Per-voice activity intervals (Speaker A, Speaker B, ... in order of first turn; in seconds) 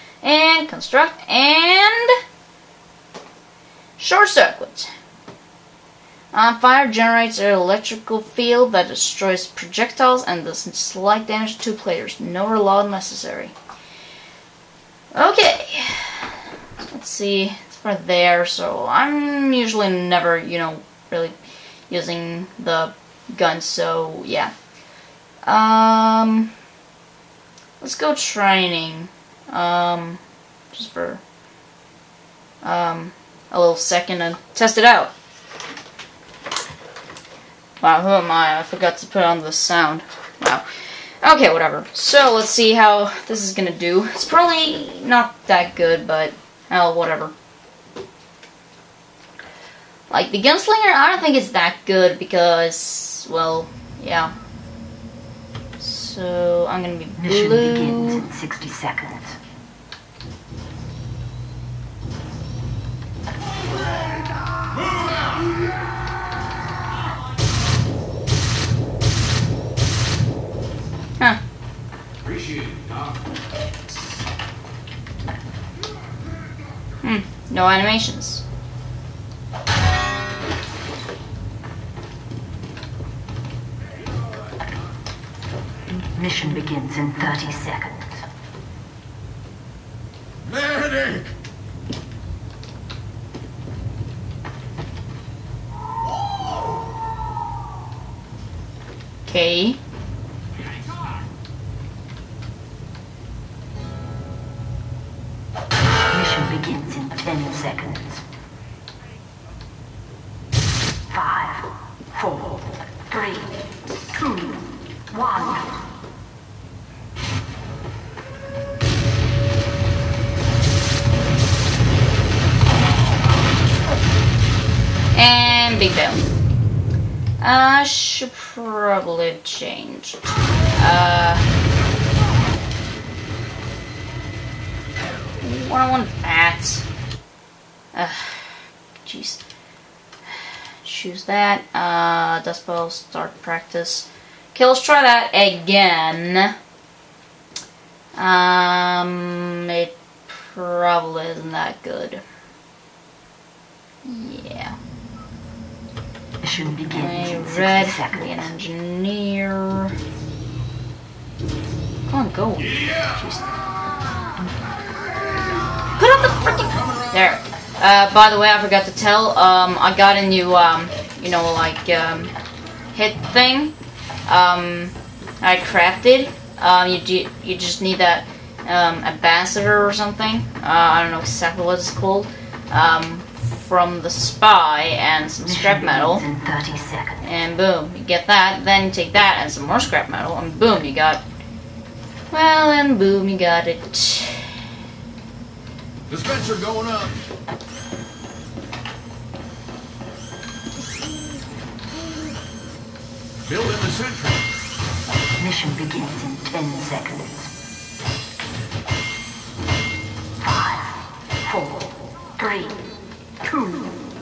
Speaker A: 0.2-2.2, 4.0-4.9, 6.3-13.5, 15.1-16.3, 16.9-21.4, 21.9-24.5, 25.4-26.5, 27.8-30.2, 30.7-31.2, 32.6-35.1, 37.8-40.6, 41.2-47.3, 50.1-54.3, 55.8-58.3, 77.0-78.4, 99.2-99.8, 125.1-126.3, 127.4-130.2, 130.7-131.5, 135.4-136.8, 137.9-139.4, 140.8-146.5, 148.2-152.2, 154.0-154.8, 156.9-159.9, 162.1-163.5, 165.9-172.3, 172.9-173.7, 174.3-186.2, 187.2-191.2, 192.3-194.6
Speaker B: 57.2-59.4, 86.0-88.2, 106.1-108.2, 111.1-114.4, 115.1-115.6, 156.4-158.5, 185.4-187.2, 205.4-207.5, 210.4-212.8, 213.4-213.9
Speaker C: 72.2-73.1, 90.5-91.3, 196.1-197.2, 203.4-204.4